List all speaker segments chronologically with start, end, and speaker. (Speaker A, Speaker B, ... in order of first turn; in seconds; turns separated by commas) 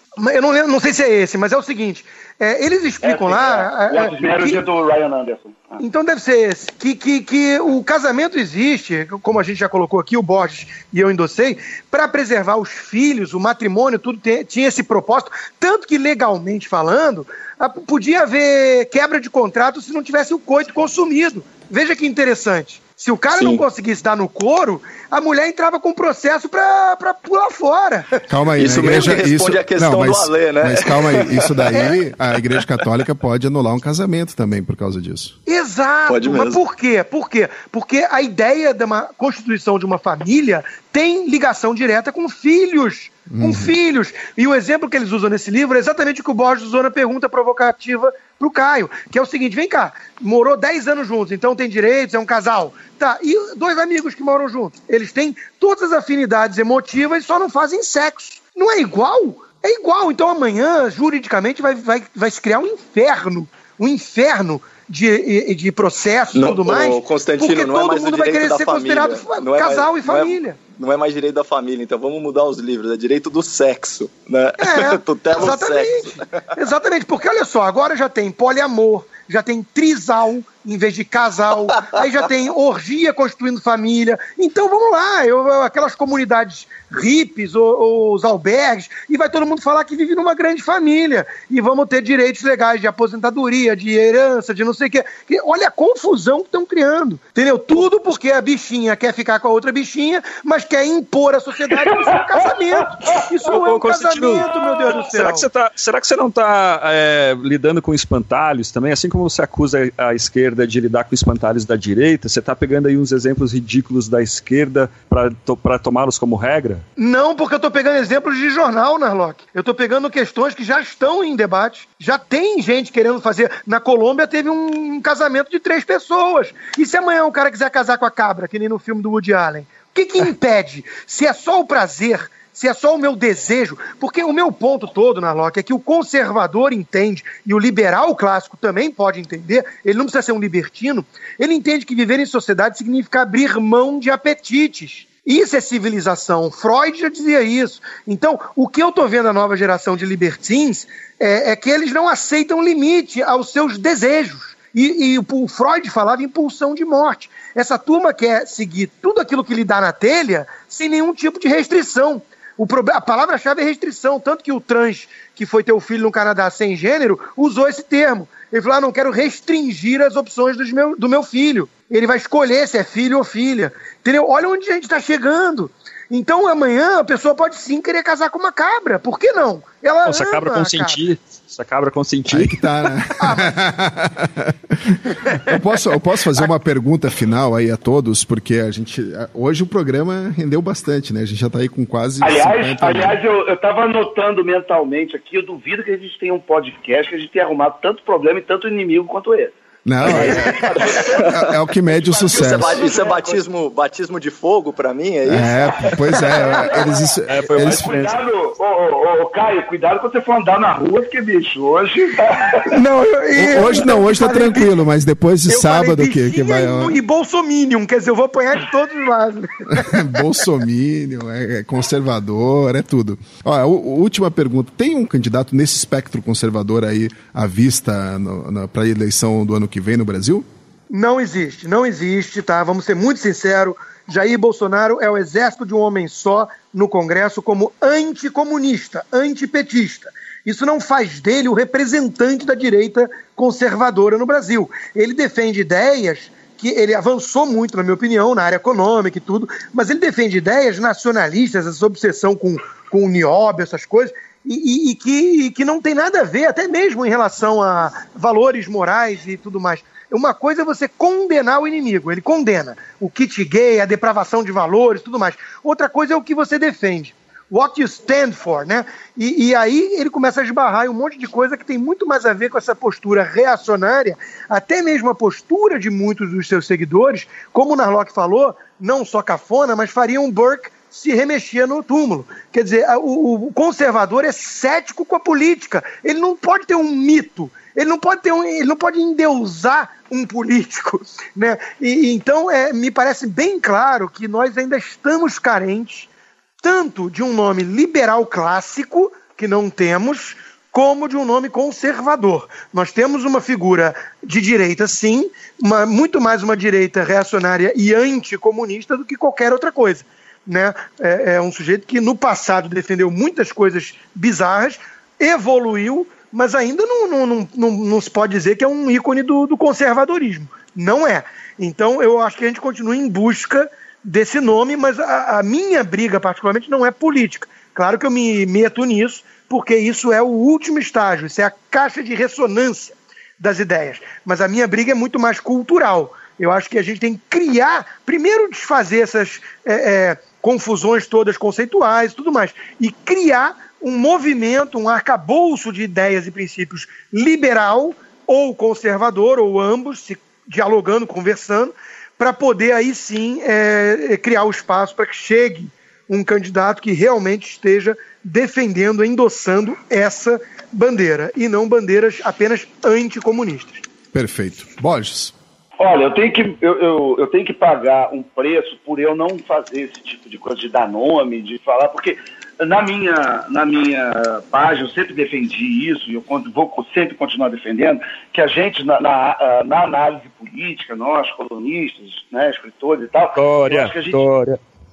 Speaker A: 0.2-4.6, Speaker B: 3.0-5.8, Speaker A: 5.8-28.1, Speaker C: 23.3-23.6, Speaker D: 28.3-35.3, Speaker C: 28.5-31.9, Speaker A: 35.5-70.6, Speaker C: 36.1-36.6, Speaker D: 43.3-43.7, Speaker C: 66.3-76.5, Speaker A: 74.6-105.5, Speaker E: 103.4-116.8, Speaker A: 117.0-181.0, Speaker E: 180.1-182.6, Speaker D: 182.3-193.2, Speaker A: 183.2-183.5, Speaker B: 192.2-203.4, Speaker D: 199.8-202.8, Speaker C: 200.1-201.5, Speaker C: 202.3-206.2, Speaker D: 205.2-207.9, Speaker B: 205.9-212.7, Speaker E: 207.3-208.2, Speaker A: 212.7-214.7, Speaker D: 213.3-217.0, Speaker A: 215.5-220.2, Speaker D: 219.7-230.4, Speaker A: 230.9-296.1, Speaker A: 296.6-363.8, Speaker D: 364.1-365.3, Speaker B: 365.8-384.3, Speaker E: 383.4-384.6